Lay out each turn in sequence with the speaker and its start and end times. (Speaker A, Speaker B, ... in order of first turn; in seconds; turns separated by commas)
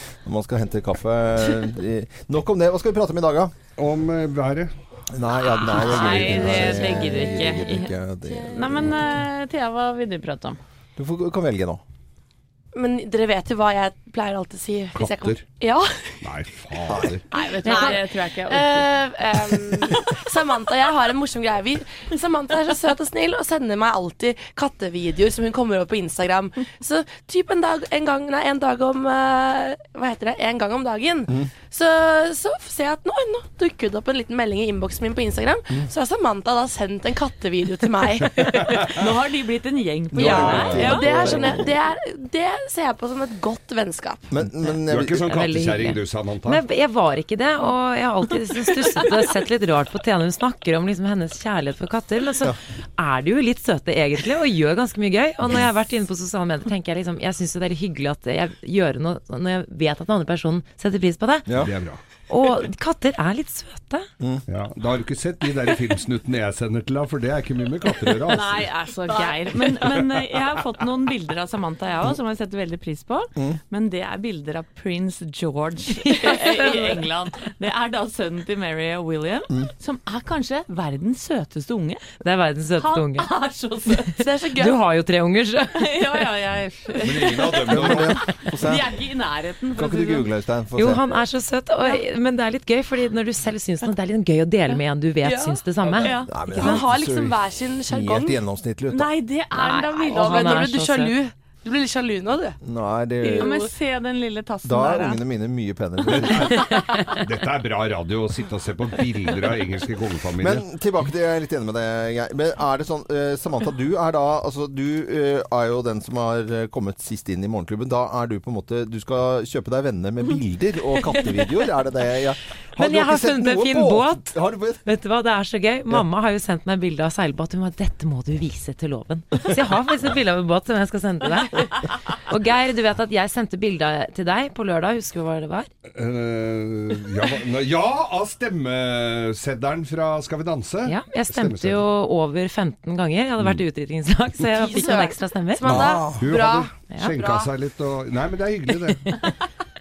Speaker A: 0.2-3.5, Speaker B: 3.8-4.7, Speaker A: 5.1-9.3, Speaker C: 5.5-10.6, Speaker B: 6.4-6.7, Speaker A: 11.0-11.8, Speaker D: 12.7-16.3, Speaker B: 14.9-15.4, Speaker B: 16.2-17.2, Speaker A: 16.9-17.2, Speaker C: 17.3-18.9, Speaker D: 17.3-38.9, Speaker E: 17.6-17.9, Speaker C: 38.4-41.4, Speaker A: 40.1-41.7, Speaker B: 40.2-40.8, Speaker D: 40.6-44.3, Speaker A: 44.3-45.3, Speaker E: 44.6-61.5, Speaker B: 44.9-46.6, Speaker A: 61.5-61.7, Speaker B: 61.6-62.0, Speaker E: 62.3-64.1, Speaker B: 64.5-68.7, Speaker C: 68.3-82.1, Speaker B: 69.6-70.4, Speaker D: 76.6-77.0, Speaker E: 82.2-83.3, Speaker C: 82.8-84.2, Speaker D: 84.2-84.8, Speaker E: 84.5-86.0, Speaker C: 85.8-90.3, Speaker B: 87.0-88.2, Speaker A: 87.2-88.9, Speaker A: 89.8-91.0, Speaker E: 90.8-96.8, Speaker D: 95.2-95.6, Speaker C: 96.0-96.4, Speaker A: 96.2-99.1, Speaker D: 96.5-98.4, Speaker C: 98.9-100.7, Speaker E: 99.5-101.1, Speaker D: 100.0-102.6, Speaker A: 102.6-103.6, Speaker C: 103.2-105.2, Speaker A: 104.6-106.7, Speaker B: 106.0-110.6, Speaker A: 110.4-124.8, Speaker E: 122.8-135.7, Speaker B: 135.9-141.8, Speaker E: 140.9-145.8, Speaker D: 144.5-147.5, Speaker A: 145.6-146.3, Speaker B: 146.2-149.1